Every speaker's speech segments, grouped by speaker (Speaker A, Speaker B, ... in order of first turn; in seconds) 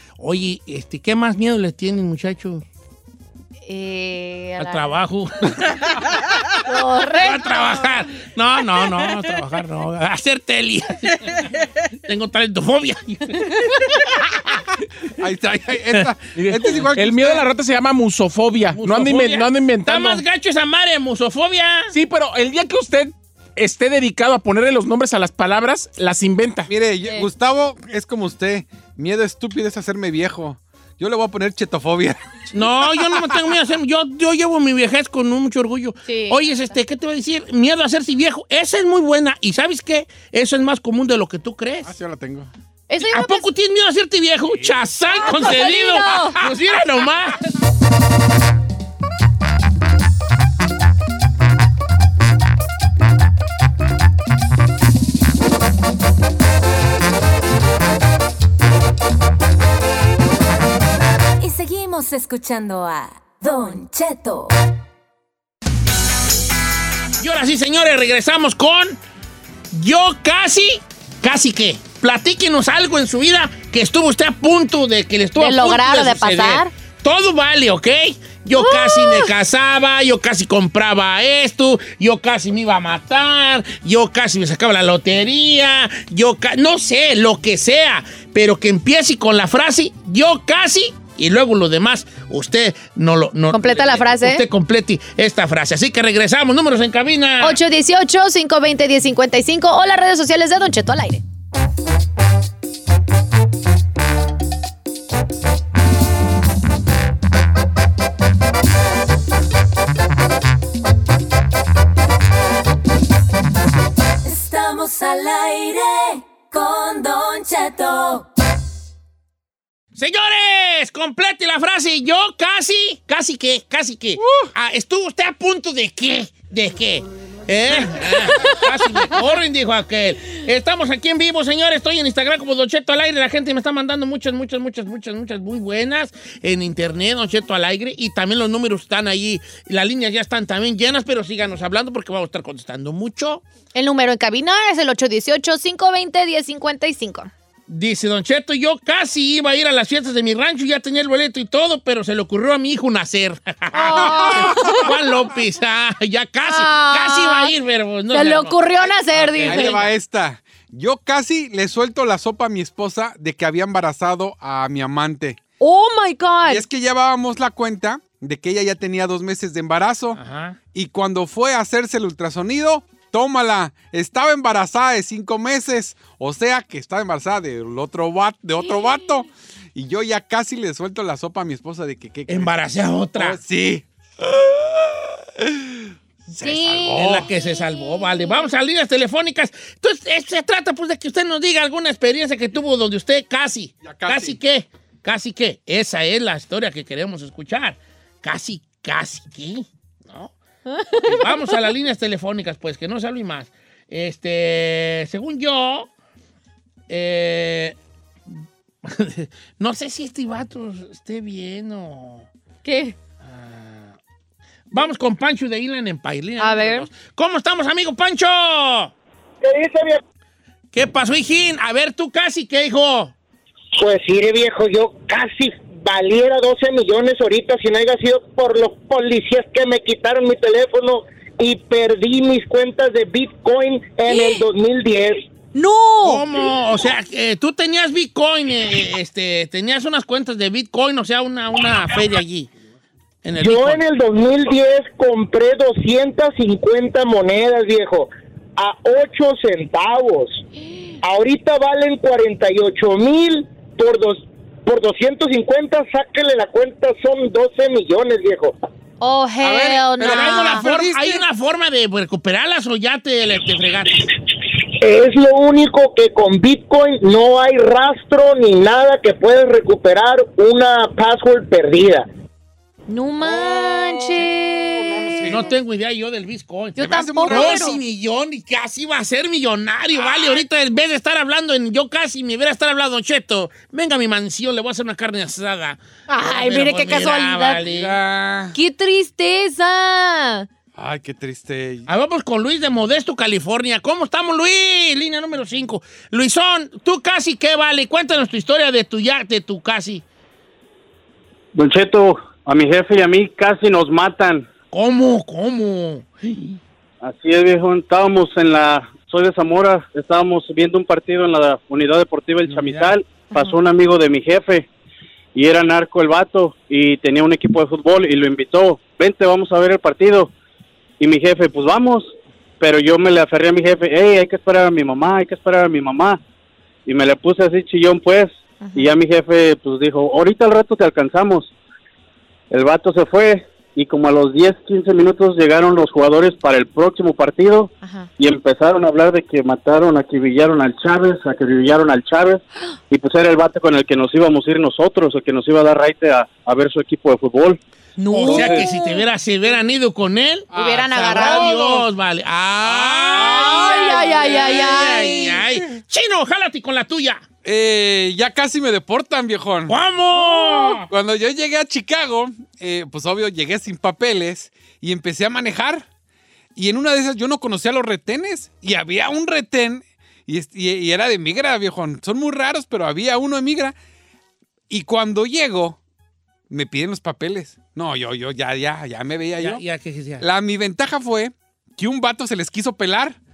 Speaker A: 0.2-2.6, 4.6-6.0, 7.2-11.3, 12.0-14.6, 18.7-21.9, 32.5-41.9, 43.0-47.5, 67.2-69.0, 69.7-97.6, 119.9-143.4, 147.7-159.9, 170.1-170.6, 182.3-183.4, 186.9-200.3, 201.0-205.9, 206.9-207.8, 208.3-212.3, 213.2-214.0, 214.7-218.9, 220.7-223.1, 236.0-242.5, 243.2-243.8, 260.0-264.1, 275.3-288.0, 291.9-300.0, 304.7-306.6, 312.4-312.9, 348.1-357.2, 359.7-360.9, 379.4-380.2
Speaker B: 3.7-4.9, 6.6-7.6, 36.0-36.4, 42.9-43.5, 45.1-46.4, 75.4-76.7, 78.5-79.3, 93.5-94.4, 97.4-101.2, 143.7-147.3, 153.7-154.9, 156.4-157.5, 158.1-159.8, 165.6-166.6, 186.4-188.4, 200.7-201.5, 212.6-212.9, 216.4-216.9, 234.1-234.4, 235.5-236.2, 250.6-251.0, 259.0-260.6, 272.9-275.3, 276.8-277.8, 286.1-287.6, 288.5-290.5, 328.6-328.9, 337.8-338.1, 348.0-349.0, 350.5-351.6, 353.2-355.4, 360.2-360.7
Speaker C: 15.2-17.4, 26.7-32.3, 41.8-42.5, 124.2-124.5, 153.9-154.9, 159.4-165.4, 166.5-170.2, 170.7-182.5, 183.2-187.3, 193.8-194.4, 259.4-261.2, 273.9-275.6, 276.8-277.8, 280.0-280.4, 287.6-288.6, 290.8-291.9, 350.5-351.9, 352.6-354.8, 357.4-359.8, 360.9-365.9, 366.5-373.7, 374.7-375.8, 376.5-379.6, 380.2-383.2
Speaker D: 16.3-20.2, 21.9-26.7
Speaker E: 61.4-64.5, 114.2-118.3
Speaker F: 219.4-219.9, 223.8-235.3, 243.4-250.4, 251.0-258.5, 264.8-272.0
Speaker G: 301.5-304.5, 307.0-314.7, 315.3-320.3, 321.0-326.2, 326.9-331.5, 332.5-347.6, 348.3-348.6